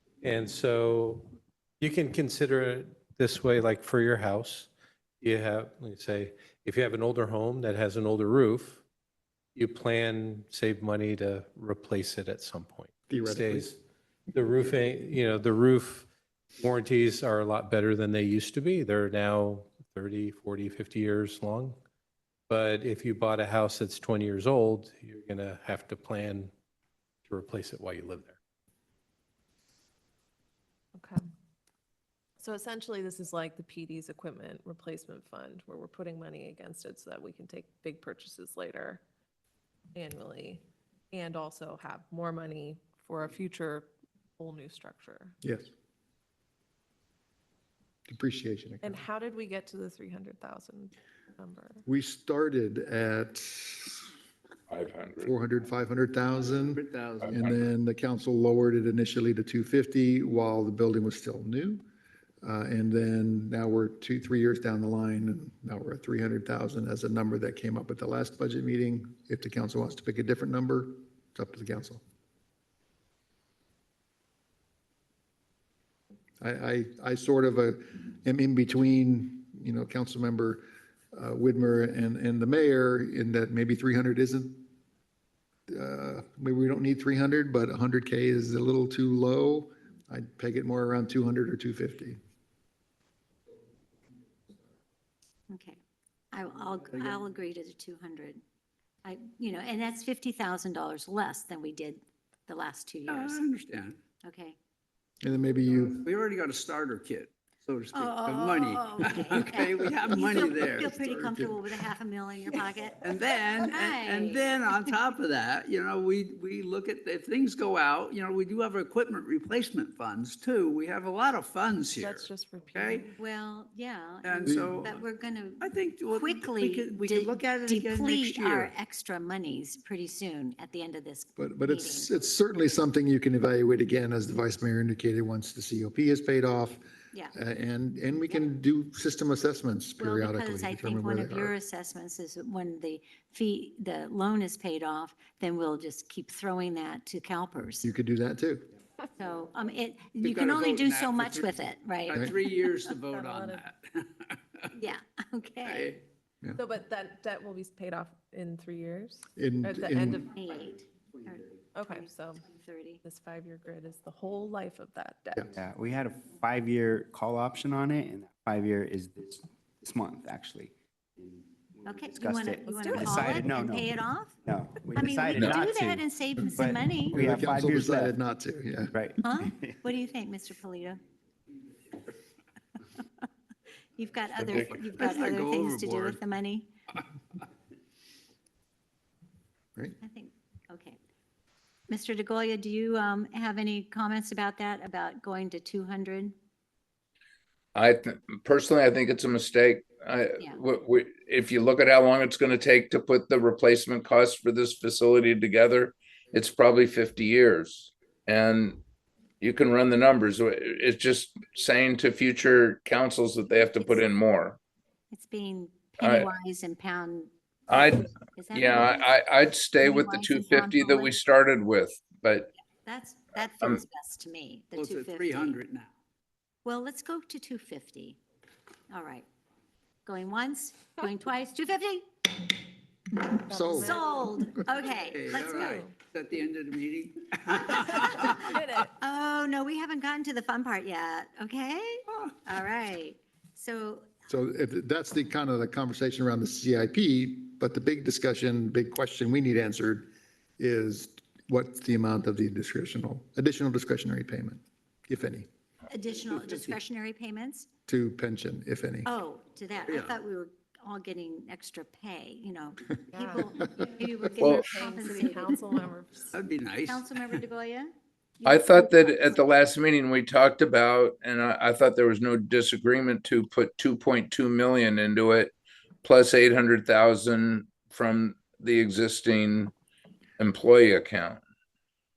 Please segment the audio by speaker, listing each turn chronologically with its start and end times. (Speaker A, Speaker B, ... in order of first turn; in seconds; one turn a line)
Speaker A: 0.2-1.3
Speaker A: 1.8-4.7
Speaker A: 5.2-8.8
Speaker A: 9.5-13.8
Speaker B: 13.1-13.7
Speaker A: 14.3-16.1
Speaker A: 16.6-21.8
Speaker A: 22.5-26.5
Speaker A: 27.3-28.4
Speaker C: 30.9-31.2
Speaker C: 32.4-39.0
Speaker C: 40.0-45.4
Speaker B: 45.4-45.7
Speaker B: 48.1-49.0
Speaker C: 48.8-51.8
Speaker B: 51.9-54.1
Speaker D: 54.7-55.3
Speaker B: 55.2-61.8
Speaker E: 56.4-57.6
Speaker B: 62.4-72.0
Speaker B: 76.4-80.6
Speaker B: 81.1-84.7
Speaker B: 85.7-92.2
Speaker F: 95.5-95.8
Speaker F: 96.3-98.4
Speaker E: 96.9-97.2
Speaker F: 99.0-103.4
Speaker E: 103.1-104.0
Speaker F: 104.2-104.5
Speaker B: 105.2-106.0
Speaker E: 106.0-111.1
Speaker F: 107.9-114.6
Speaker B: 111.0-111.5
Speaker E: 113.0-123.1
Speaker C: 122.0-123.2
Speaker F: 123.2-132.2
Speaker E: 124.2-125.0
Speaker B: 124.5-124.8
Speaker E: 125.6-128.7
Speaker B: 131.4-136.8
Speaker B: 137.3-141.5
Speaker F: 140.0-147.9
Speaker B: 147.8-148.7
Speaker F: 149.2-152.9
Speaker E: 150.2-151.5
Speaker E: 152.1-154.7
Speaker C: 153.0-153.7
Speaker F: 154.8-156.0
Speaker E: 155.6-156.0
Speaker C: 156.6-160.3
Speaker B: 159.3-160.2
Speaker F: 160.3-163.0
Speaker C: 161.7-162.4
Speaker C: 163.0-165.6
Speaker G: 165.5-178.2
Speaker F: 171.8-174.4
Speaker C: 172.6-173.4
Speaker F: 174.9-177.2
Speaker B: 177.1-178.9
Speaker G: 178.9-179.8
Speaker F: 179.2-181.0
Speaker F: 183.9-186.7
Speaker D: 184.4-184.7
Speaker E: 184.5-186.2
Speaker F: 190.0-191.0
Speaker F: 191.9-196.3
Speaker D: 197.8-208.8
Speaker D: 209.4-214.6
Speaker F: 213.6-214.1
Speaker F: 215.1-217.3
Speaker D: 216.0-216.3
Speaker D: 217.7-222.5
Speaker F: 218.3-219.1
Speaker F: 219.8-221.2
Speaker F: 222.8-225.6
Speaker E: 224.8-225.9
Speaker F: 226.6-228.2
Speaker F: 228.9-229.2
Speaker F: 230.1-232.6
Speaker F: 233.2-235.8
Speaker C: 233.5-234.3
Speaker B: 233.5-234.0
Speaker E: 234.7-238.5
Speaker C: 235.3-236.0
Speaker C: 237.7-238.9
Speaker F: 237.8-238.4
Speaker F: 239.0-244.1
Speaker B: 244.3-250.1
Speaker B: 250.6-255.5
Speaker F: 255.9-257.7
Speaker E: 256.2-256.8
Speaker B: 257.9-259.1
Speaker F: 259.1-265.8
Speaker E: 259.9-260.2
Speaker C: 263.1-263.8
Speaker C: 264.4-266.4
Speaker D: 264.4-264.7
Speaker E: 266.3-267.4
Speaker F: 266.9-267.9
Speaker F: 268.4-269.5
Speaker D: 268.4-279.7
Speaker D: 280.4-281.4